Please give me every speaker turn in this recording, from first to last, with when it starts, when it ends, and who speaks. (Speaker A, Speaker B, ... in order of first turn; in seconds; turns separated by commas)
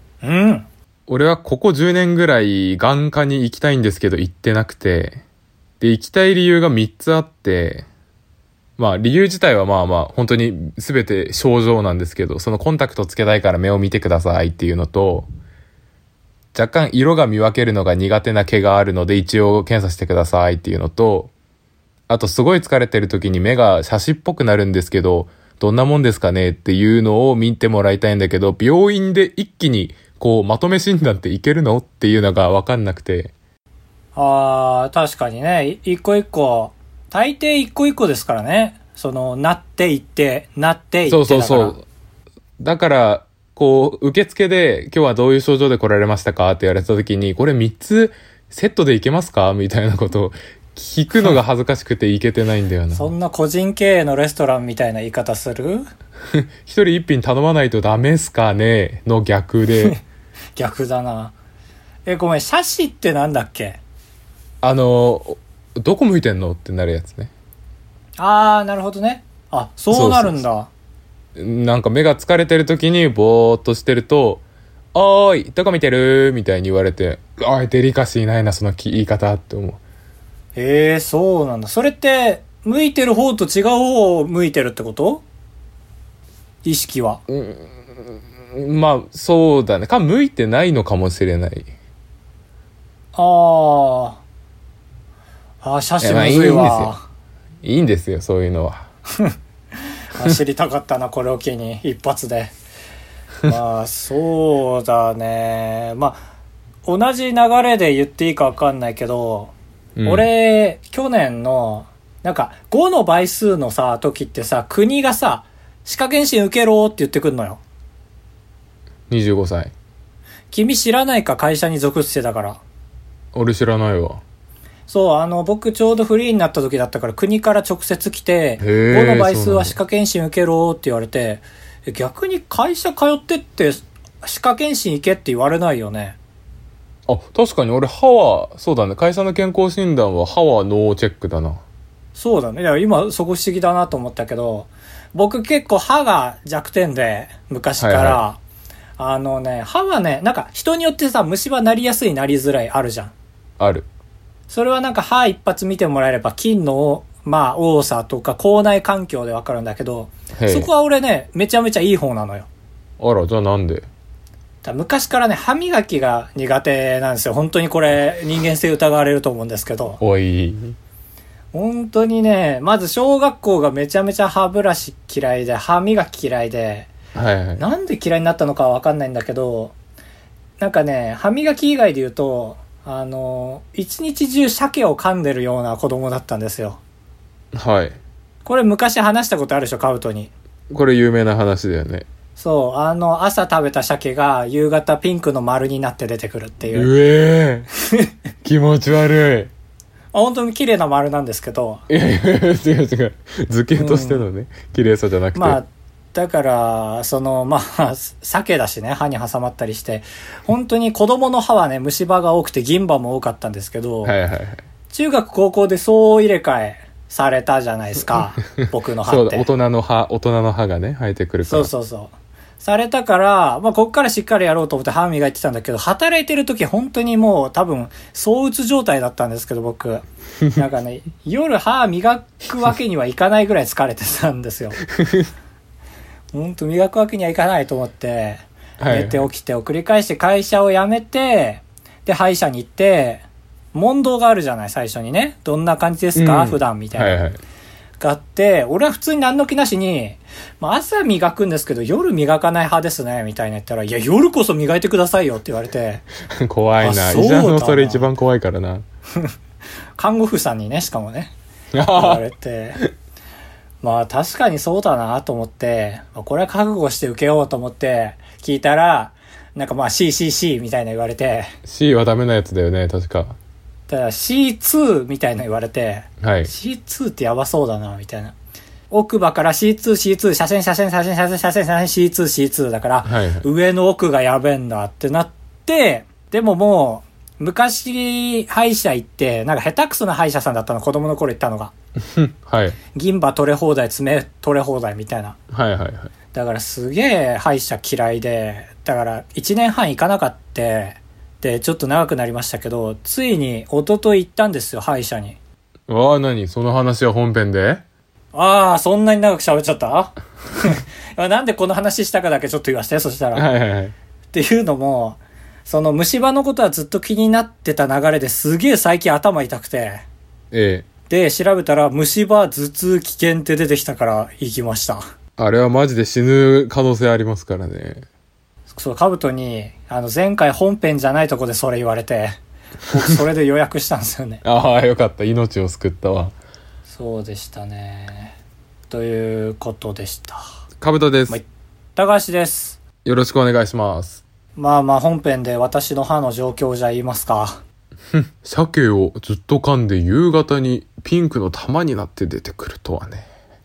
Speaker A: 0.2-0.7, Speaker B: 1.1-5.2, Speaker B: 5.8-7.8, Speaker B: 8.8-15.3, Speaker B: 16.5-21.3, Speaker B: 22.1-33.3, Speaker A: 34.1-41.8, Speaker B: 41.1-41.8, Speaker B: 42.6-53.1, Speaker A: 52.9-55.9, Speaker B: 56.3-60.0, Speaker A: 60.5-61.3, Speaker A: 62.0-63.8, Speaker B: 64.6-67.3, Speaker A: 68.2-70.7, Speaker B: 69.9-70.4, Speaker B: 71.3-74.4, Speaker B: 74.9-79.8, Speaker A: 80.5-85.2, Speaker A: 86.6-87.2, Speaker B: 87.3-91.7, Speaker A: 93.1-94.2, Speaker A: 95.6-97.0, Speaker B: 96.0-96.9, Speaker B: 97.6-98.9, Speaker A: 99.1-102.5, Speaker A: 103.4-106.2, Speaker A: 106.8-109.5, Speaker B: 110.0-110.2, Speaker A: 110.0-117.6, Speaker B: 119.1-119.7, Speaker A: 120.5-122.6, Speaker B: 123.3-124.2, Speaker A: 124.9-136.2, Speaker B: 128.6-129.8, Speaker B: 137.1-141.6, Speaker A: 142.1-148.4, Speaker B: 147.8-148.2, Speaker A: 149.0-153.1, Speaker B: 153.6-153.9, Speaker A: 154.5-162.5, Speaker B: 160.3-160.7, Speaker B: 163.0-163.9, Speaker A: 164.6-170.0, Speaker B: 170.0-170.8, Speaker A: 171.5-176.9, Speaker B: 177.1-177.6, Speaker A: 177.6-179.7, Speaker A: 180.6-186.8, Speaker B: 187.5-188.0, Speaker A: 188.4-190.3, Speaker B: 190.7-192.1, Speaker A: 192.4-196.9, Speaker B: 196.7-197.7, Speaker A: 197.8-198.1, Speaker B: 198.4-199.5, Speaker A: 200.1-201.8, Speaker B: 201.9-205.6, Speaker A: 203.8-204.2, Speaker A: 205.3-214.1, Speaker B: 214.0-214.6, Speaker A: 214.9-219.5, Speaker B: 219.0-221.7, Speaker A: 221.4-234.8, Speaker B: 234.9-235.2, Speaker A: 236.3-247.2, Speaker B: 238.8-239.3, Speaker B: 246.2-247.4, Speaker A: 248.0-256.0, Speaker B: 256.4-258.8, Speaker A: 256.8-258.1, Speaker A: 260.0-261.3, Speaker B: 261.7-262.2, Speaker A: 261.9-262.8, Speaker A: 263.8-271.5, Speaker B: 271.6-273.4, Speaker A: 273.9-278.3, Speaker B: 276.2-276.5, Speaker A: 278.9-291.7, Speaker B: 283.0-283.4, Speaker B: 292.0-292.8, Speaker A: 292.9-295.4, Speaker B: 295.5-296.1, Speaker A: 296.3-305.4, Speaker B: 305.9-307.8, Speaker A: 308.3-313.5, Speaker B: 313.3-313.9, Speaker A: 314.3-320.0, Speaker B: 320.5-320.9, Speaker A: 321.1-325.0, Speaker B: 325.4-328.1, Speaker A: 328.7-332.4, Speaker A: 332.9-334.4, Speaker B: 334.4-336.3, Speaker A: 336.9-338.3, Speaker A: 338.9-340.4, Speaker B: 340.8-341.4, Speaker A: 341.9-342.8, Speaker B: 343.0-344.2, Speaker A: 344.6-347.6, Speaker B: 348.1-353.3